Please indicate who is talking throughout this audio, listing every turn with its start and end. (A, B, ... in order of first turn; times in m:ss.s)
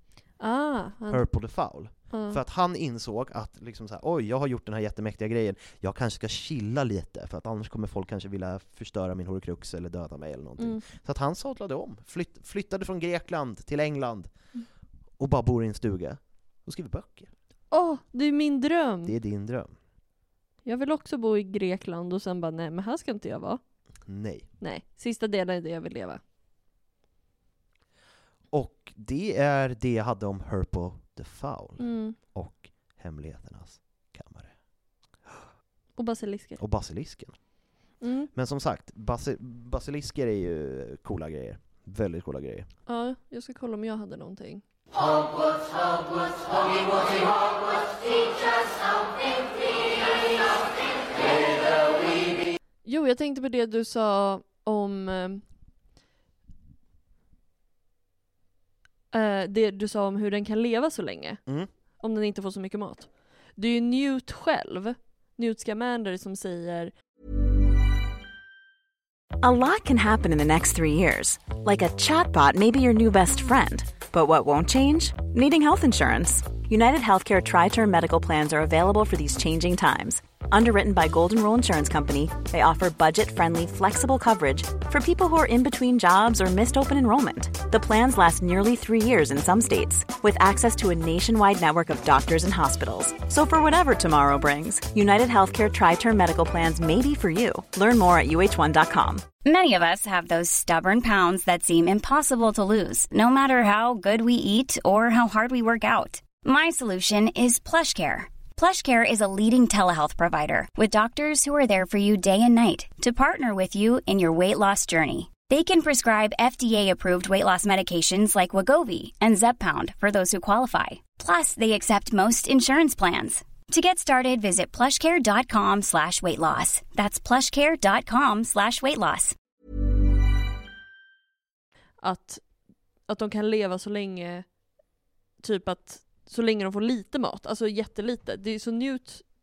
0:00.4-0:01.2 A
0:01.1-0:14.3 B
0:02.1-0:02.4 A
0:15.2-0:17.3 B
0:17.7-0:19.1 A
0:19.0-0:19.7 B
0:20.6-0:23.6 A
0:24.0-0:24.5 B
0:24.6-0:26.2 A
0:28.5-0:34.5 B
0:31.8-0:32.2 A
0:36.0-0:36.6 A
0:36.6-0:37.3 B
0:38.0-0:38.3 A
0:38.3-0:42.7 B
0:42.9-0:44.6 A
0:52.8-0:55.4 A
0:59.1-1:01.4 A
1:02.0-1:06.9 A
1:09.4-1:39.3 C
1:39.4-2:09.3 D
2:12.0-2:12.4 A
2:13.1-2:14.4 A
2:15.4-2:19.2 A